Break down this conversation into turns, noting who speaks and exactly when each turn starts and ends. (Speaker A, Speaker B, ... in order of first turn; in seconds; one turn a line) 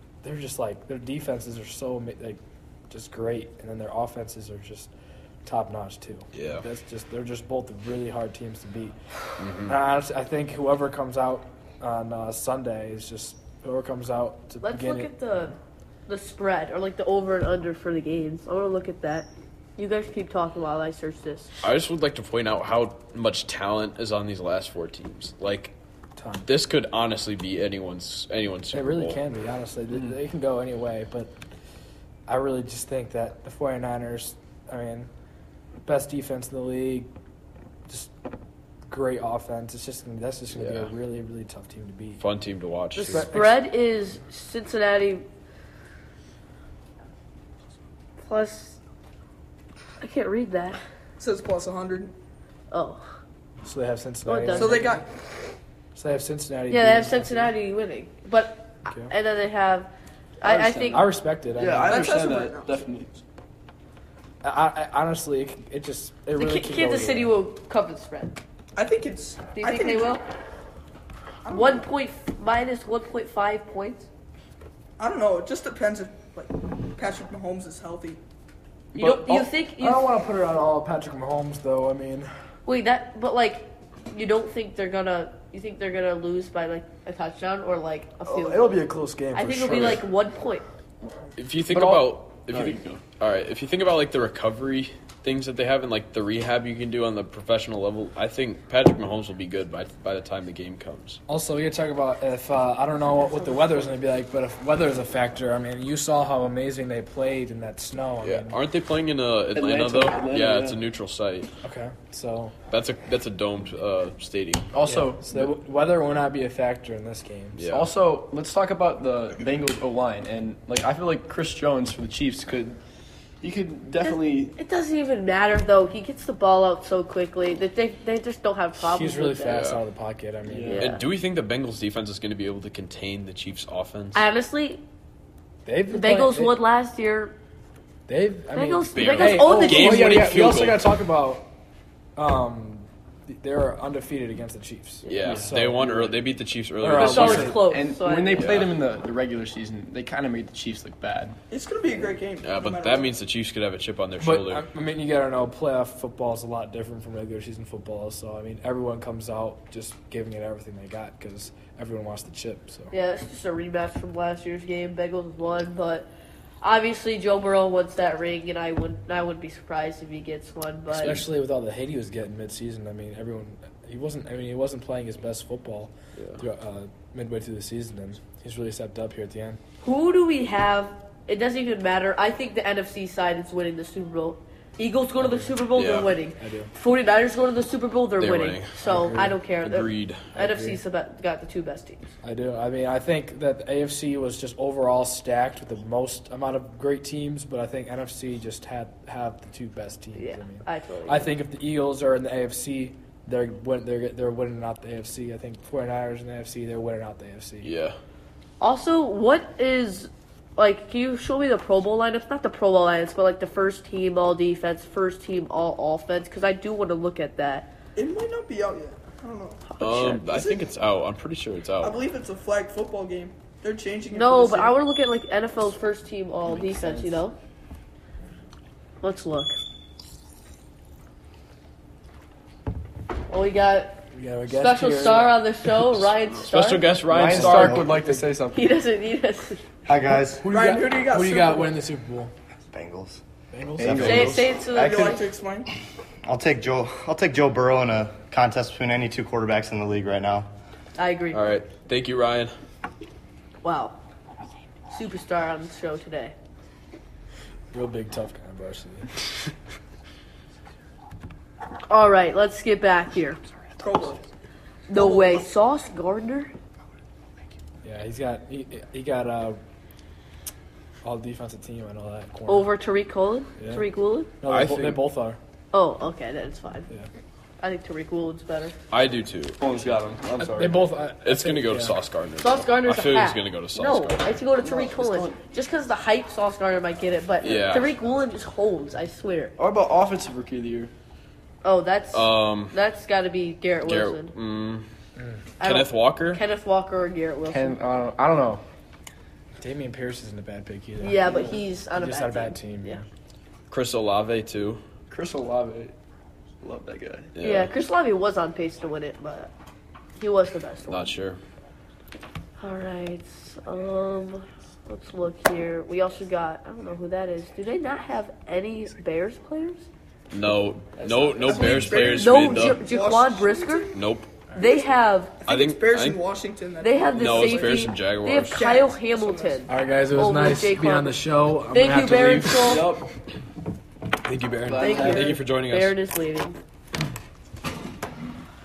Speaker A: 0.2-4.9
Speaker A: 5.4-9.0
Speaker B: 6.3-6.6
Speaker B: 9.4-9.7
Speaker A: 9.6-15.1
Speaker C: 14.6-15.5
Speaker C: 16.1-21.5
Speaker B: 21.6-25.7
Speaker A: 26.2-26.5
Speaker B: 26.4-29.2
Speaker A: 28.7-31.3
Speaker A: 32.3-35.1
Speaker A: 35.8-37.1
Speaker A: 38.9-42.2
Speaker B: 40.5-40.9
Speaker B: 42.2-43.3
Speaker C: 42.9-45.2
Speaker A: 43.1-43.6
Speaker C: 48.2-48.8
Speaker C: 50.0-50.8
Speaker D: 51.2-52.1
Speaker C: 52.7-53.0
Speaker A: 53.6-55.0
Speaker C: 54.2-55.0
Speaker D: 54.5-55.0
Speaker A: 55.9-57.5
Speaker C: 56.7-61.1
Speaker A: 58.9-59.1
Speaker E: 60.4-63.2
Speaker A: 60.9-62.1
Speaker D: 61.8-62.8
Speaker A: 64.4-67.3
Speaker C: 66.3-68.4
Speaker D: 68.7-70.2
Speaker C: 69.5-70.2
Speaker D: 71.4-71.9
Speaker C: 71.5-74.1
Speaker D: 75.0-78.2
Speaker C: 78.9-80.1
Speaker A: 79.0-82.3
Speaker C: 82.7-90.6
Speaker A: 88.2-90.0
Speaker B: 91.4-101.2
Speaker E: 91.7-93.0
Speaker A: 101.3-108.6
Speaker B: 108.2-111.5
Speaker E: 109.5-110.8
Speaker A: 111.6-112.5
Speaker B: 112.7-114.7
Speaker E: 114.7-115.5
Speaker A: 114.9-117.6
Speaker B: 117.5-117.9
Speaker E: 117.7-122.8
Speaker E: 123.4-124.5
Speaker C: 124.0-129.6
Speaker A: 128.8-130.8
Speaker B: 129.5-129.8
Speaker E: 130.5-130.8
Speaker C: 130.7-131.0
Speaker B: 130.8-134.2
Speaker C: 134.1-134.8
Speaker A: 135.7-136.6
Speaker C: 135.9-137.3
Speaker A: 138.1-141.5
Speaker C: 138.5-140.4
Speaker B: 138.9-140.8
Speaker A: 142.2-146.2
Speaker B: 145.1-147.6
Speaker A: 146.8-147.6
Speaker C: 146.9-148.5
Speaker E: 146.9-151.4
Speaker B: 148.3-148.8
Speaker D: 151.5-153.1
Speaker B: 152.4-154.7
Speaker A: 154.2-162.9
Speaker C: 162.9-166.1
Speaker C: 166.6-171.1
Speaker A: 170.9-179.6
Speaker C: 179.8-192.1
Speaker A: 185.2-185.7
Speaker B: 185.7-186.1
Speaker A: 186.4-186.7
Speaker B: 188.2-188.7
Speaker A: 188.8-189.4
Speaker B: 189.6-190.3
Speaker A: 190.3-190.8
Speaker A: 192.2-207.7
Speaker C: 200.2-201.3
Speaker B: 207.6-207.9
Speaker C: 208.6-217.7
Speaker D: 217.9-220.6
Speaker C: 219.7-220.2
Speaker B: 219.8-222.0
Speaker D: 221.8-224.8
Speaker C: 224.1-227.3
Speaker E: 226.4-227.2
Speaker C: 229.0-229.6
Speaker C: 233.3-236.9
Speaker A: 234.1-235.4
Speaker B: 236.5-238.0
Speaker E: 237.0-238.7
Speaker A: 237.3-238.3
Speaker C: 238.5-239.6
Speaker F: 239.9-240.5
Speaker A: 240.2-242.3
Speaker D: 240.4-241.7
Speaker F: 242.7-243.2
Speaker A: 243.5-245.2
Speaker E: 243.7-244.5
Speaker F: 243.8-244.3
Speaker C: 243.9-245.2
Speaker D: 244.6-245.7
Speaker F: 246.2-250.5
Speaker C: 251.0-251.4
Speaker B: 251.3-252.5
Speaker C: 253.6-254.0
Speaker C: 254.9-256.3
Speaker A: 257.7-259.1
Speaker C: 261.9-263.4
Speaker D: 263.8-264.2
Speaker C: 264.9-266.5
Speaker D: 264.9-265.5
Speaker A: 267.8-269.6
Speaker A: 271.0-272.7
Speaker C: 272.5-274.3
Speaker A: 273.6-273.8
Speaker A: 274.4-275.4
Speaker B: 274.5-275.0
Speaker C: 275.7-276.9
Speaker C: 277.6-278.7
Speaker B: 278.9-279.9
Speaker E: 279.6-280.9
Speaker A: 280.4-282.0
Speaker B: 281.2-284.2
Speaker C: 282.4-289.5
Speaker E: 284.5-285.4
Speaker B: 287.4-287.9
Speaker E: 289.6-290.9
Speaker C: 291.6-294.3
Speaker B: 292.1-292.7
Speaker B: 293.8-294.8
Speaker A: 295.1-295.4
Speaker C: 295.6-297.8
Speaker B: 295.6-296.4
Speaker E: 297.5-298.6
Speaker A: 299.6-303.0
Speaker C: 301.0-303.0
Speaker B: 303.7-304.8
Speaker E: 305.1-305.9
Speaker E: 306.6-307.3
Speaker B: 307.3-307.7
Speaker C: 307.4-309.5
Speaker C: 310.2-311.1
Speaker B: 310.9-311.4
Speaker C: 312.6-319.9
Speaker B: 320.3-322.8
Speaker E: 321.0-322.5
Speaker D: 321.5-324.0
Speaker C: 321.8-323.9
Speaker B: 323.9-324.4
Speaker D: 324.5-324.9
Speaker C: 324.5-325.4
Speaker D: 325.4-327.9
Speaker B: 325.5-326.2
Speaker C: 326.8-331.2
Speaker B: 327.1-328.6
Speaker D: 328.4-329.7
Speaker A: 329.7-332.9
Speaker C: 331.7-332.8
Speaker E: 332.5-333.1
Speaker B: 334.2-335.9
Speaker E: 334.6-335.4
Speaker C: 334.8-336.6